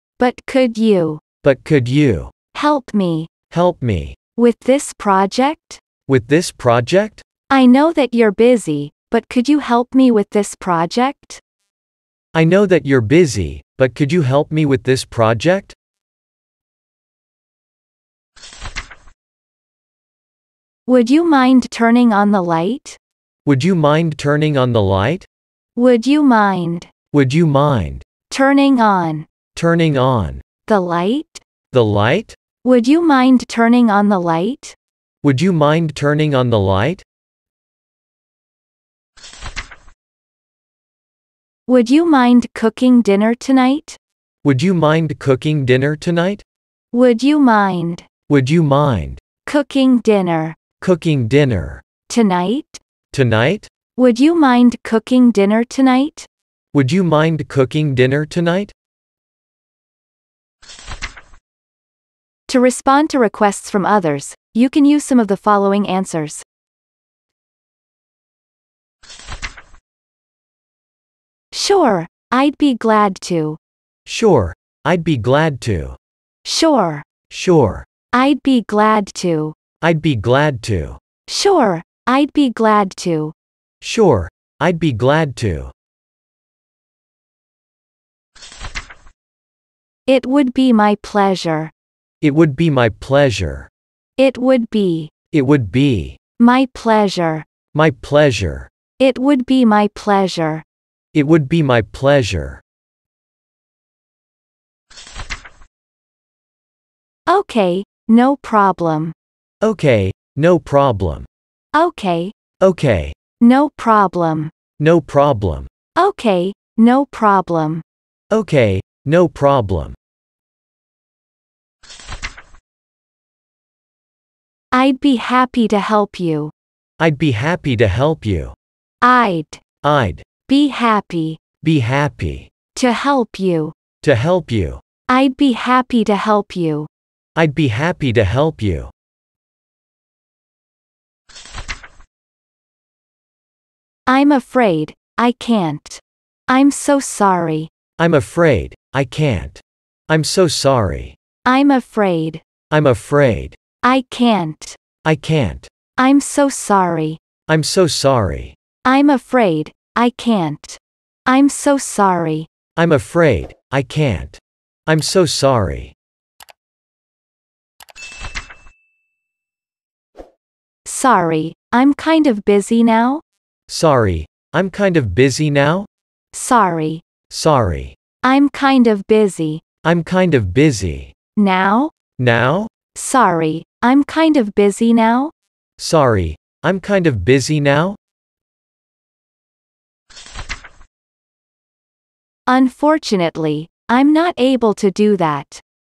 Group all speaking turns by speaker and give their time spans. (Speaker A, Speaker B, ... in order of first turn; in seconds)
Speaker A: 0.2-1.2, 2.5-3.3, 4.4-5.8, 7.5-11.4, 20.9-23.0, 25.8-26.9, 28.3-29.3, 30.7-31.4, 32.6-34.8, 41.7-44.0, 46.9-48.1, 49.4-50.6, 52.1-52.8, 54.0-56.3, 62.5-66.5, 71.5-73.6, 76.4-77.1, 78.1-79.6, 81.3-83.3, 90.1-91.7, 94.2-95.1, 96.4-97.5, 99.0-100.7, 107.3-109.2, 111.7-112.3, 113.4-114.5, 116.0-117.8, 124.7-126.5, 129.0-129.6, 130.4-131.4, 132.8-133.8, 135.1-136.9, 144.1-147.7, 151.4-152.4, 153.8-154.8, 156.0-157.2, 158.8-162.5, 170.8-173.2, 176.3-177.0, 178.2-179.6, 181.4-181.9, 182.9-185.3, 192.5-195.6
Speaker B: 1.4-2.3, 3.5-4.2, 6.1-7.2, 12.3-15.8, 23.5-25.3, 27.1-28.1, 29.6-30.4, 31.7-32.4, 35.2-37.0, 44.4-46.5, 48.3-49.2, 50.8-51.8, 53.1-53.7, 56.7-58.7, 74.1-76.0, 77.3-77.9, 79.8-81.0, 83.8-85.7, 92.2-93.7, 95.3-96.2, 97.7-98.7, 101.1-102.6, 109.6-111.3, 112.6-113.2, 114.8-115.7, 118.3-120.0, 127.0-128.6, 129.8-130.3, 131.6-132.5, 134.0-134.8, 137.4-138.9, 148.0-151.2, 152.7-153.6, 155.0-155.7, 157.5-158.6, 162.8-165.9, 173.7-175.9, 177.3-178.0, 179.8-181.1, 182.2-182.7, 185.8-188.0